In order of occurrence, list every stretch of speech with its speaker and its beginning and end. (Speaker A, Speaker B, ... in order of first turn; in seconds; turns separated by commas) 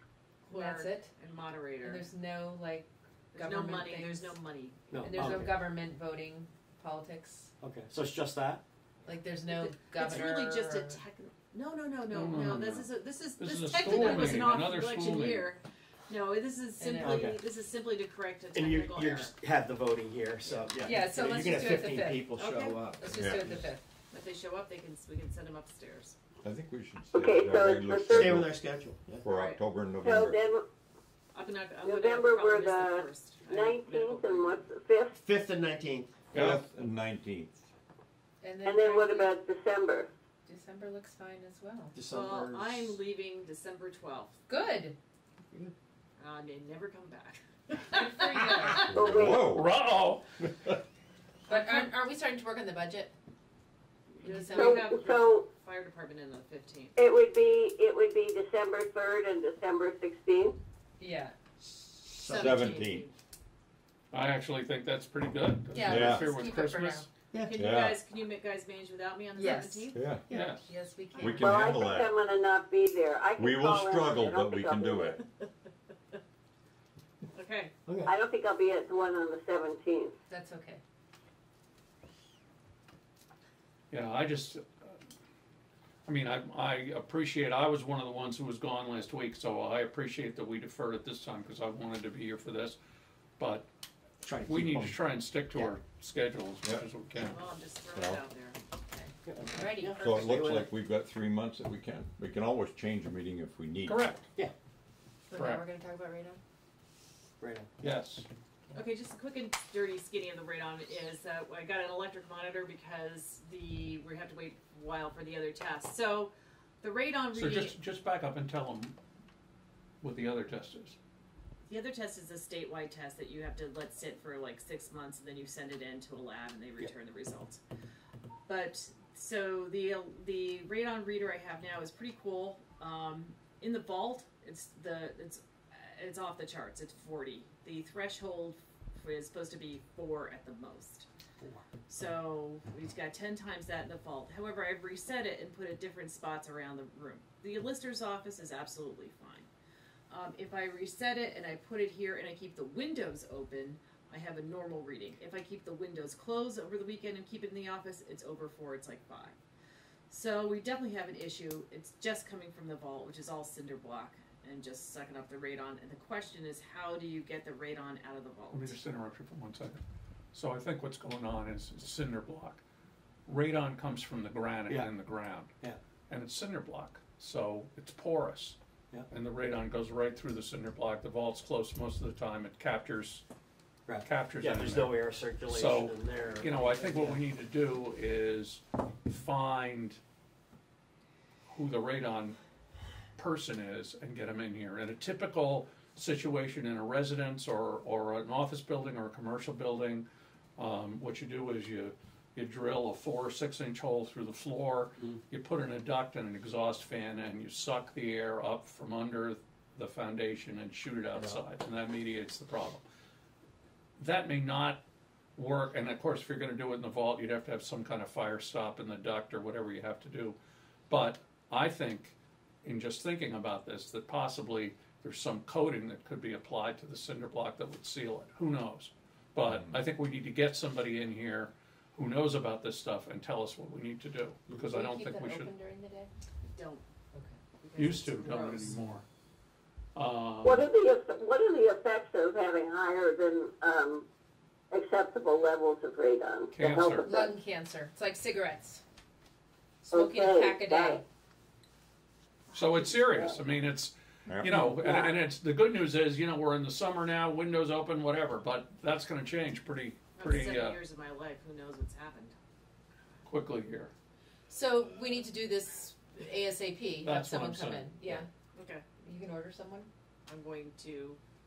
Speaker A: 0.4-2.1, Speaker B: 0.5-1.1, Speaker B: 1.8-4.4, Speaker A: 3.3-5.4, Speaker C: 4.9-5.7, Speaker B: 5.0-7.5, Speaker C: 7.6-8.6, Speaker B: 9.0-11.0, Speaker A: 9.5-19.3, Speaker D: 12.1-15.5, Speaker B: 13.7-14.6, Speaker B: 16.8-17.4, Speaker C: 17.0-17.4, Speaker C: 18.5-23.6, Speaker B: 20.8-22.3, Speaker A: 22.4-22.8, Speaker B: 22.9-23.8, Speaker E: 23.0-23.6, Speaker A: 24.1-26.1, Speaker E: 26.4-28.6, Speaker F: 27.1-28.3, Speaker C: 28.1-29.2, Speaker E: 29.2-30.4, Speaker A: 29.2-29.6, Speaker F: 30.0-30.6, Speaker A: 31.3-34.6, Speaker F: 31.8-35.1, Speaker C: 35.1-36.2, Speaker D: 36.3-36.6, Speaker E: 36.3-37.6, Speaker B: 38.4-39.3, Speaker F: 38.6-40.1, Speaker B: 40.5-41.9, Speaker C: 41.9-43.0, Speaker A: 42.1-44.4, Speaker B: 44.5-45.0, Speaker A: 46.2-49.0, Speaker B: 47.9-49.0, Speaker E: 48.9-49.7, Speaker F: 48.9-49.5, Speaker D: 49.3-50.3, Speaker B: 51.5-53.1, Speaker A: 51.5-51.9, Speaker A: 54.1-57.0, Speaker B: 54.2-54.9, Speaker F: 54.5-55.5, Speaker F: 57.0-60.5, Speaker B: 61.0-61.4, Speaker C: 61.6-62.9, Speaker A: 62.1-63.1, Speaker E: 62.4-63.0, Speaker D: 64.1-67.0, Speaker B: 65.7-67.1, Speaker E: 65.8-66.3, Speaker C: 67.3-67.7, Speaker A: 67.4-70.2, Speaker E: 67.5-68.0, Speaker B: 69.3-71.8, Speaker E: 69.9-70.2, Speaker C: 70.2-70.5, Speaker D: 70.3-70.7, Speaker E: 71.2-72.1, Speaker F: 71.3-75.2, Speaker E: 73.4-75.2, Speaker A: 77.3-77.7, Speaker C: 77.9-78.1, Speaker F: 78.0-80.1, Speaker B: 80.3-80.8, Speaker D: 83.9-85.0, Speaker D: 86.0-92.8, Speaker D: 93.4-93.6, Speaker C: 94.2-95.8, Speaker D: 94.4-97.4, Speaker E: 96.6-96.9, Speaker A: 97.3-98.6, Speaker E: 97.9-98.2, Speaker B: 98.9-100.1, Speaker C: 99.2-100.7, Speaker E: 100.0-104.1, Speaker D: 103.8-104.3, Speaker B: 105.3-106.4, Speaker D: 105.3-105.6, Speaker C: 107.4-107.7, Speaker D: 107.8-108.2, Speaker A: 108.7-117.7, Speaker D: 117.3-119.0, Speaker D: 120.0-121.0, Speaker A: 121.7-127.6, Speaker A: 128.4-141.1, Speaker C: 141.4-141.7, Speaker A: 141.9-149.5, Speaker A: 150.1-159.4, Speaker A: 160.1-168.7, Speaker D: 168.5-169.8, Speaker D: 170.3-172.6, Speaker D: 173.2-175.5, Speaker D: 176.1-178.6, Speaker D: 179.1-183.2, Speaker C: 183.9-187.2, Speaker D: 184.0-190.0, Speaker D: 191.5-192.4, Speaker D: 193.2-200.1, Speaker D: 200.6-212.8, Speaker C: 211.1-211.4, Speaker D: 214.0-214.8, Speaker D: 215.3-220.4, Speaker D: 220.9-235.5, Speaker E: 229.4-229.8, Speaker B: 234.6-236.1, Speaker A: 236.5-236.8, Speaker B: 237.1-237.4, Speaker A: 237.5-238.7, Speaker D: 237.8-239.0, Speaker D: 239.9-240.7, Speaker F: 240.4-244.1, Speaker F: 244.7-247.3, Speaker D: 246.5-247.2, Speaker B: 247.1-248.8, Speaker B: 249.8-251.0, Speaker F: 249.9-251.0, Speaker A: 252.5-252.9, Speaker D: 252.5-260.8, Speaker A: 260.1-262.4, Speaker D: 263.2-263.9, Speaker B: 264.5-268.3, Speaker D: 267.0-267.9, Speaker A: 268.5-268.9, Speaker B: 269.0-269.9, Speaker A: 270.3-271.2